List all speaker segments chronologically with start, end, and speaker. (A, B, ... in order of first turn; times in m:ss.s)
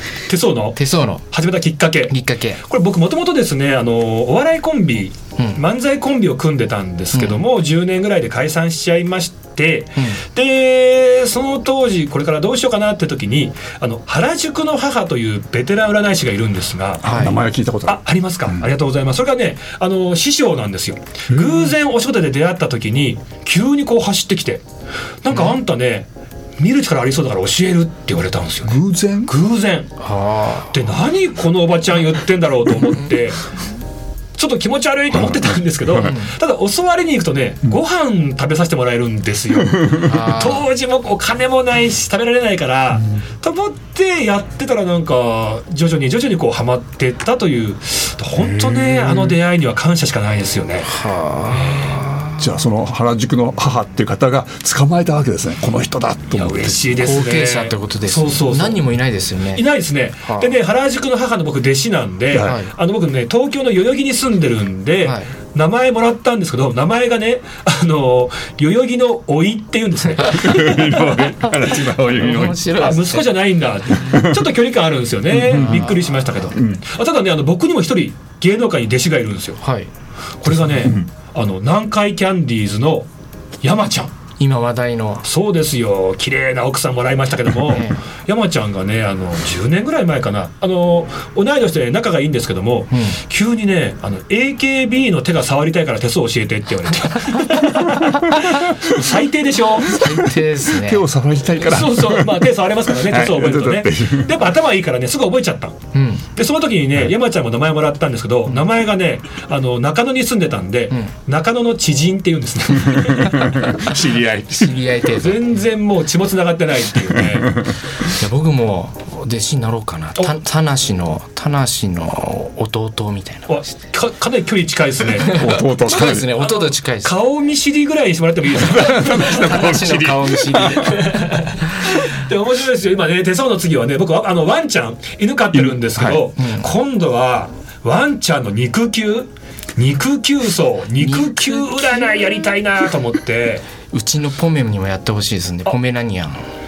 0:00.3-0:00.8 A
0:00.8-0:01.3 B
0:01.3-0:17.1 A
0:02.1-0:02.6 B
0:07.1-0:07.4 B
0:17.0-0:18.7 C
0:17.0-0:17.4 B
0:17.9-0:24.6 A
0:21.3-0:21.7 C
0:25.2-0:29.9 A
0:28.6-0:29.3 C
0:30.0-0:30.7 B
0:30.7-0:33.4 A
0:34.4-0:50.9 A
0:35.4-0:36.1 C
0:36.0-0:36.3 B
0:39.7-0:40.1 C
0:40.0-0:40.6 B
0:48.4-0:49.4 C
0:50.9-0:52.4 B
0:51.5-0:52.0 A
0:52.4-0:57.0 C
0:56.3-0:58.8 A
0:57.0-0:59.7 B
0:59.5-1:11.2 A
1:00.3-1:00.6 B
1:02.3-1:02.6 C
1:02.3-1:02.7 B
1:05.0-1:05.3 B
1:10.2-1:10.6 B
1:10.3-1:12.6 C
1:12.2-1:13.4 B
1:12.8-1:19.6 A
1:15.3-1:15.9 C
1:15.5-1:16.2 B
1:16.6-1:16.8 C
1:19.6-1:19.9 B
1:20.4-1:23.1 A
1:20.5-1:21.1 C
1:23.6-1:24.1 A
1:24.4-1:25.2 B
1:25.2-1:40.0 A
1:27.7-1:28.0 B
1:39.8-1:41.0 B
1:39.9-1:44.3 C
1:41.6-1:45.8 A
1:45.9-1:46.2 B
1:46.4-1:53.5 A
1:52.8-1:54.8 C
1:54.5-1:55.4 B
1:55.2-1:57.6 A
1:58.0-2:03.6 B
2:03.5-2:09.4 A
2:05.2-2:07.1 B
2:05.2-2:06.3 C
2:08.6-2:11.0 C
2:09.0-2:11.2 B
2:10.8-2:23.6 A
2:15.5-2:16.2 C
2:16.4-2:16.7 B
2:21.0-2:22.0 B
2:23.9-2:26.4 B